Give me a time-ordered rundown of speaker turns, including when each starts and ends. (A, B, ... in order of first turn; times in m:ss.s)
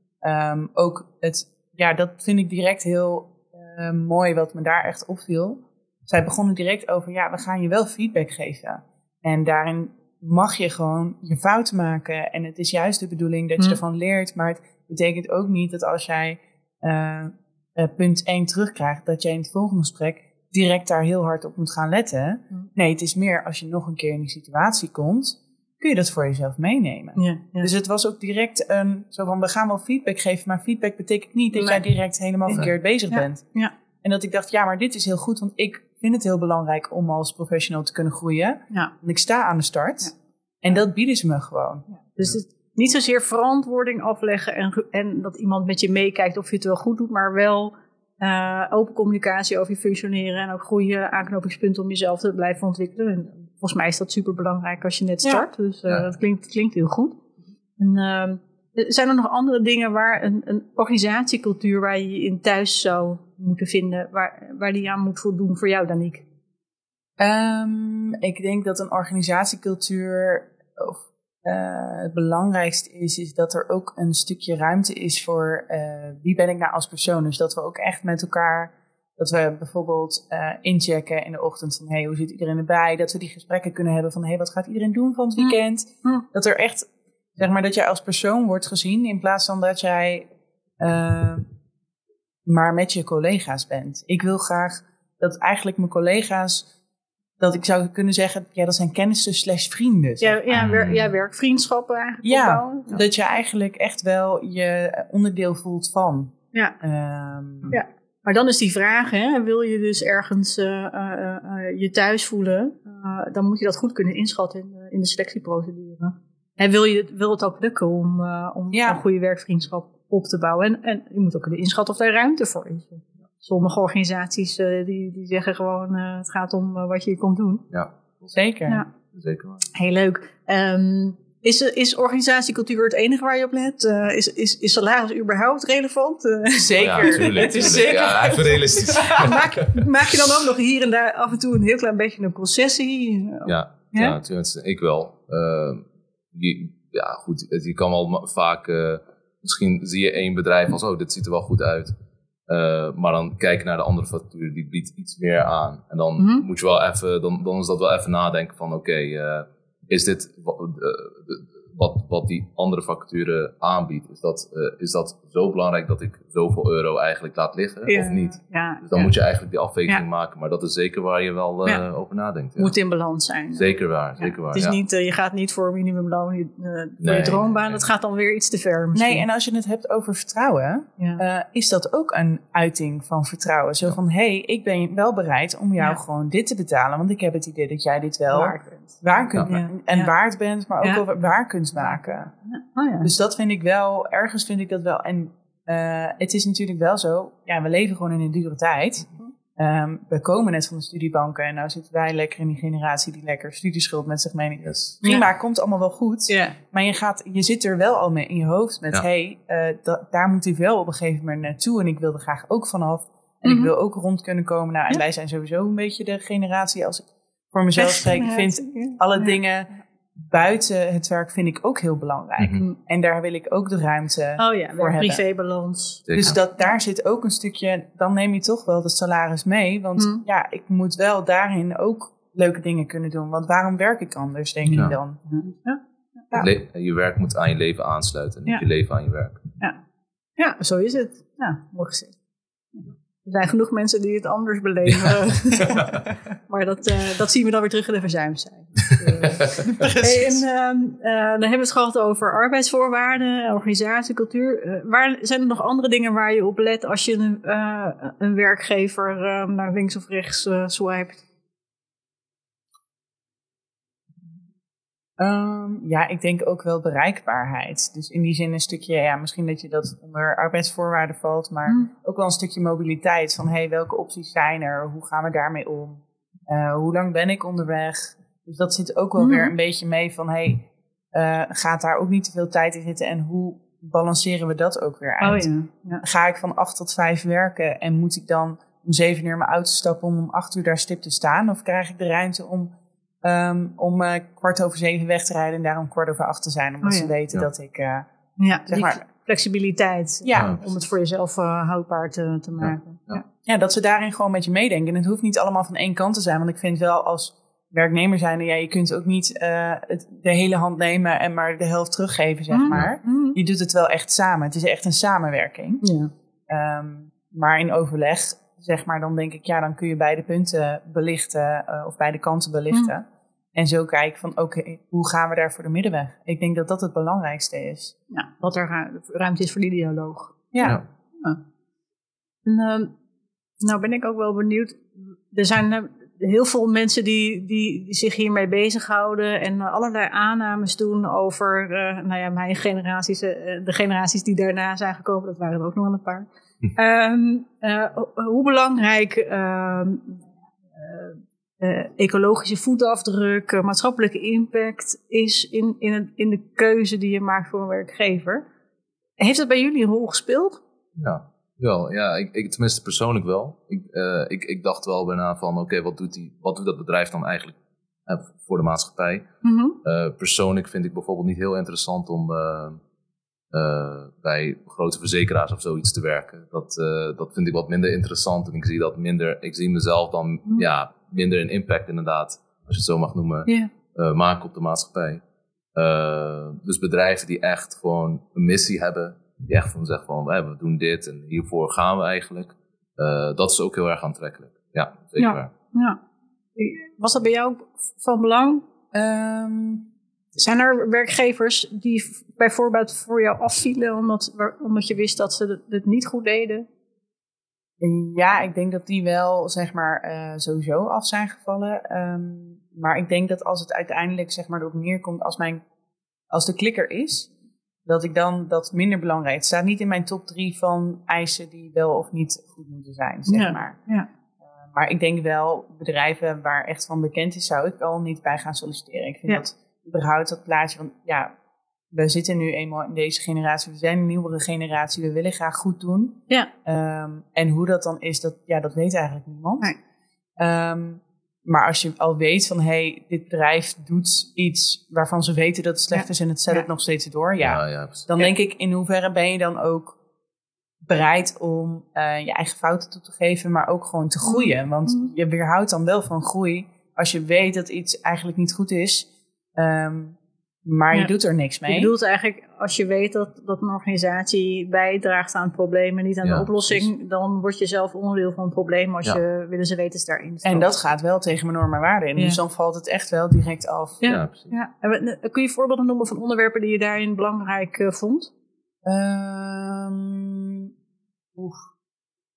0:00.2-0:40.1 A
0:27.2-0:27.7 B
0:31.5-0:31.8 B
0:32.5-0:33.7 B
0:40.6-0:41.9 A
0:41.9-0:57.2 B
0:57.8-1:06.2 B
1:07.2-1:31.5 A
1:25.4-1:26.2 B
1:32.5-1:36.7 A
1:37.4-1:40.4 A
1:40.2-1:43.0 B
1:40.5-1:41.1 C
1:42.2-1:47.8 A
1:47.7-2:07.6 B
1:58.7-1:59.0 A
2:07.7-2:08.4 C
2:08.3-2:08.8 A
2:09.1-2:09.7 C
2:09.7-2:17.5 B
2:16.6-2:19.4 A
2:16.8-2:19.8 C
2:18.3-2:24.2 B
2:23.5-2:31.9 C
2:32.5-2:52.7 C
2:36.2-2:36.5 B
2:47.9-2:49.1 B
2:52.6-2:59.3 B
2:53.5-2:54.8 C
2:57.0-2:57.8 C
2:58.9-3:12.3 A
3:01.0-3:01.2 B
3:08.3-3:10.1 B
3:12.5-3:13.1 B
3:13.0-3:39.7 A
3:24.6-3:25.0 C
3:26.3-3:26.6 B
3:33.4-3:33.7 B
3:37.8-3:39.4 B
3:40.3-3:45.2 A
3:42.4-3:42.6 C
3:44.4-3:46.1 B
3:46.1-3:46.4 C
3:46.1-3:55.2 A
3:50.0-3:50.2 B
3:54.7-3:55.0 C
3:54.8-3:55.8 B
3:56.3-3:59.4 C
4:00.4-4:02.2 B
4:02.8-4:21.2 B
4:04.8-4:06.0 C
4:09.0-4:09.8 C
4:09.8-4:10.2 A
4:25.2-4:45.5 A
4:39.2-4:39.5 B
4:45.2-4:46.0 B
4:46.0-4:52.7 A
4:53.2-4:58.1 A
4:56.8-4:57.1 B
4:58.4-5:03.2 B
4:58.7-4:59.0 A
5:00.2-5:00.8 A
5:02.6-5:03.2 C
5:03.4-5:15.8 A
5:12.5-5:13.4 B
5:15.8-5:16.1 B
5:16.5-5:23.0 A
5:23.6-5:28.0 A
5:28.1-5:30.5 B
5:30.5-5:30.8 A
5:32.5-5:32.9 B
5:33.6-5:58.4 B
5:59.2-6:00.6 B
6:01.0-6:09.2 C
6:09.4-6:09.8 B
6:09.8-6:12.8 C
6:13.5-6:25.2 C
6:23.5-6:23.7 B
6:25.8-6:35.5 C
6:35.2-6:36.0 B
6:36.6-6:38.6 B
6:38.9-6:39.9 A
6:40.4-6:46.7 B
6:47.8-6:55.6 A
6:56.3-6:57.3 A
6:57.9-7:03.8 A
7:03.3-7:04.1 B
7:04.7-7:11.3 A
7:11.9-7:19.7 A
7:20.4-7:30.0 A
7:25.9-7:26.6 B
7:27.4-7:28.1 C
7:30.8-7:41.9 A
7:34.2-7:35.1 B
7:41.7-7:50.7 B
7:46.2-7:46.9 C
7:50.4-7:54.1 A
7:54.0-7:54.6 C
7:54.0-7:58.3 B
7:58.8-8:00.7 A
8:01.4-8:01.7 A